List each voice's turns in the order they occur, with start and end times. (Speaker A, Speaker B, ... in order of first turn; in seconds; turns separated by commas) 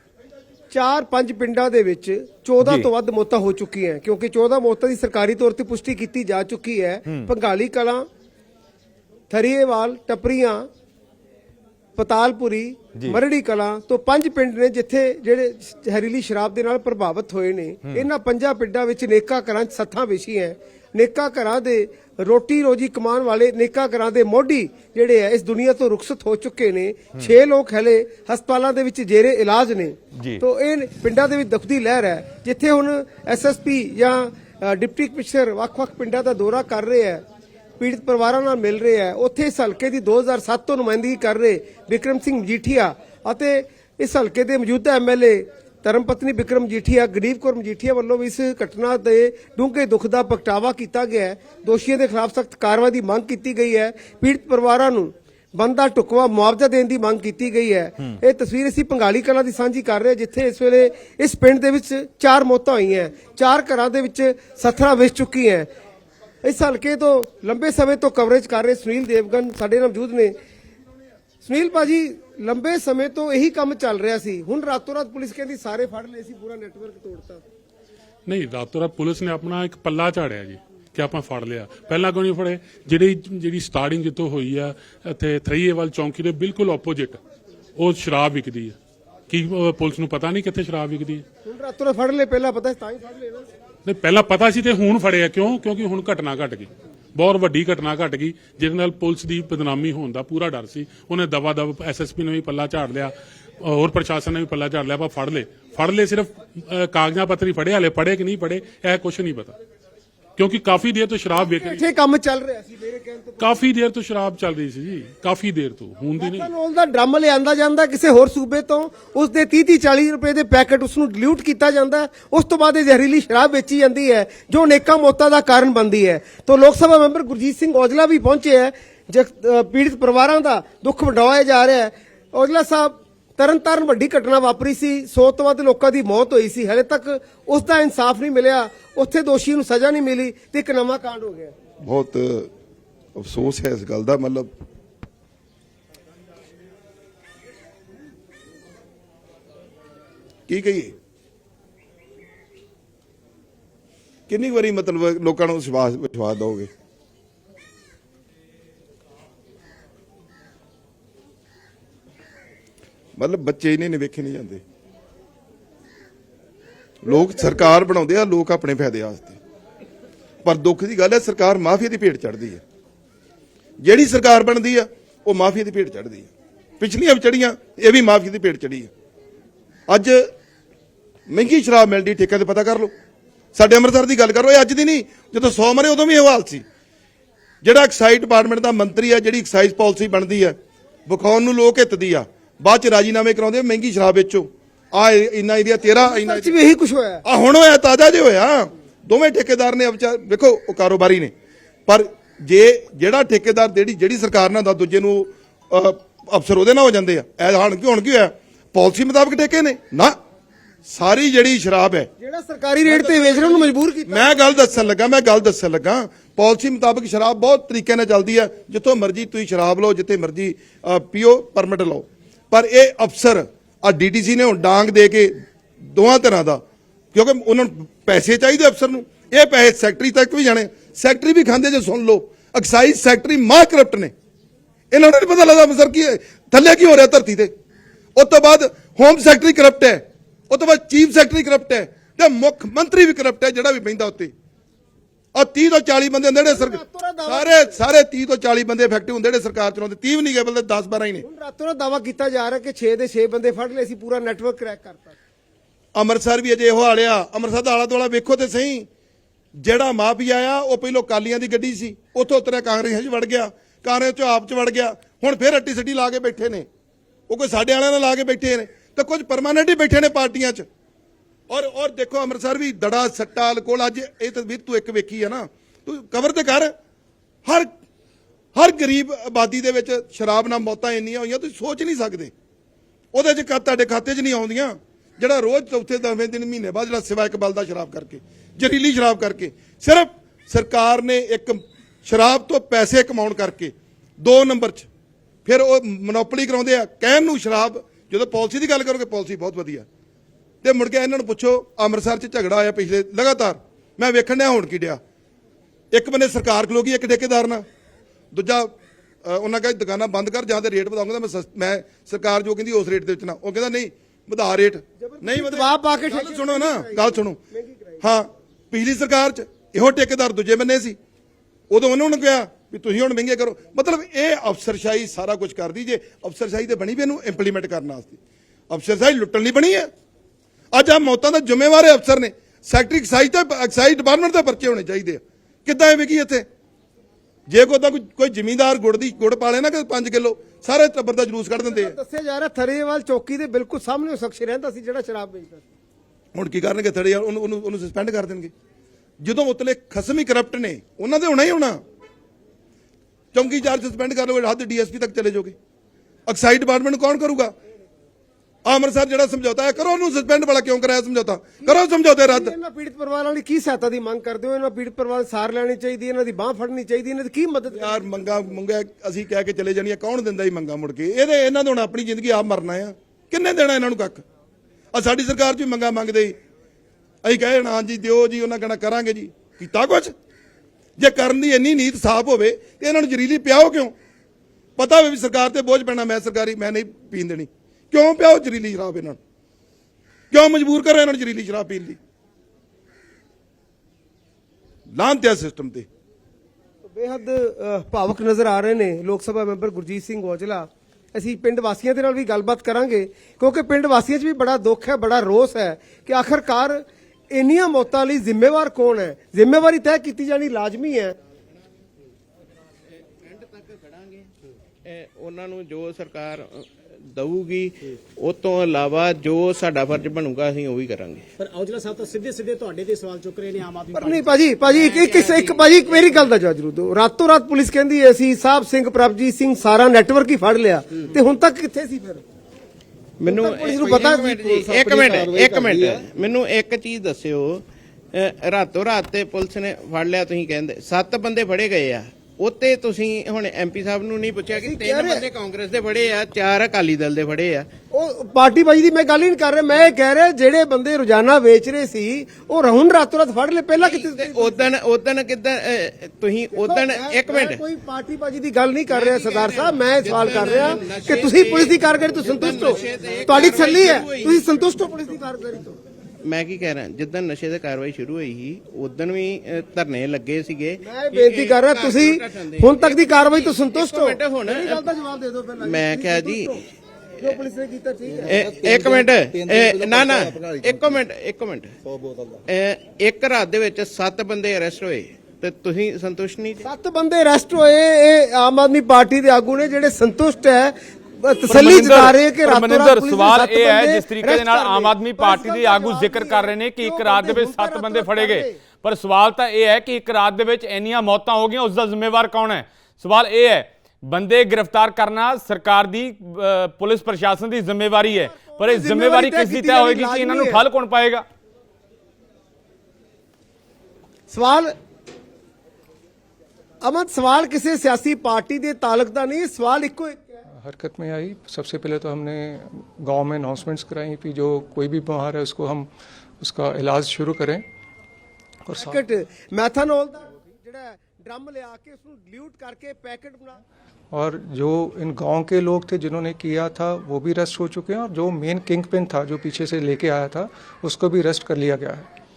Speaker A: 0.7-8.1, Speaker B: 2.6-2.9, Speaker A: 9.3-10.7, Speaker A: 12.0-37.2, Speaker A: 37.8-65.7, Speaker A: 66.4-70.3, Speaker A: 71.4-77.4, Speaker C: 78.3-87.2, Speaker C: 87.8-88.8, Speaker C: 89.3-91.2, Speaker A: 91.5-93.5, Speaker C: 93.9-109.5, Speaker C: 110.4-111.9, Speaker A: 111.6-113.6, Speaker C: 113.4-116.5, Speaker A: 116.2-141.5, Speaker D: 141.8-142.5, Speaker D: 143.2-144.5, Speaker D: 150.5-150.9, Speaker D: 154.3-156.7, Speaker D: 163.2-164.6, Speaker D: 167.0-169.4, Speaker D: 170.4-172.6, Speaker D: 173.8-178.9, Speaker D: 179.9-180.2, Speaker D: 181.3-182.9, Speaker D: 183.6-186.6, Speaker D: 187.6-190.6, Speaker D: 191.1-196.6, Speaker A: 196.0-197.2, Speaker D: 197.2-201.3, Speaker D: 201.9-210.2, Speaker D: 210.9-212.1, Speaker A: 212.2-214.5, Speaker D: 212.8-226.6, Speaker D: 227.1-234.1, Speaker D: 234.9-237.5, Speaker D: 238.2-244.3, Speaker D: 245.3-251.2, Speaker A: 246.4-247.8, Speaker A: 251.2-255.2, Speaker D: 255.9-258.9, Speaker D: 259.6-266.7, Speaker D: 267.3-270.7, Speaker D: 271.5-276.7, Speaker D: 278.6-282.3, Speaker D: 283.1-294.9, Speaker D: 295.5-299.9, Speaker D: 300.6-305.0, Speaker D: 305.9-307.7, Speaker D: 308.3-308.7, Speaker D: 309.2-317.4, Speaker A: 315.0-318.1, Speaker D: 318.0-321.0, Speaker D: 321.7-328.2, Speaker D: 328.7-329.9, Speaker D: 330.7-336.5, Speaker D: 337.5-341.9, Speaker A: 341.6-345.6, Speaker D: 346.3-348.5, Speaker D: 349.2-351.8, Speaker D: 353.3-355.6, Speaker D: 356.3-357.6, Speaker D: 358.7-362.5, Speaker A: 361.6-368.2, Speaker D: 367.8-374.2, Speaker D: 374.9-376.4, Speaker D: 377.2-380.1, Speaker D: 381.0-383.9, Speaker D: 384.8-389.2, Speaker D: 390.3-392.0, Speaker D: 394.9-395.9, Speaker A: 396.9-411.1, Speaker E: 413.2-414.3, Speaker E: 414.9-421.3, Speaker F: 421.4-424.3, Speaker A: 423.9-432.2, Speaker E: 424.7-426.1, Speaker E: 433.2-447.7, Speaker A: 433.2-435.3, Speaker A: 444.6-445.3, Speaker A: 447.9-454.7, Speaker E: 453.8-457.7, Speaker A: 456.5-465.8, Speaker E: 458.9-464.6, Speaker E: 466.2-474.9, Speaker A: 470.8-476.6, Speaker E: 475.6-476.6, Speaker A: 477.2-478.4, Speaker E: 478.2-481.8, Speaker E: 482.5-486.6, Speaker A: 486.6-498.6, Speaker B: 491.5-511.2, Speaker A: 508.1-510.6, Speaker A: 514.3-514.7, Speaker A: 516.8-520.4, Speaker G: 520.5-527.6, Speaker G: 528.7-529.0, Speaker A: 528.8-533.6, Speaker G: 534.1-542.1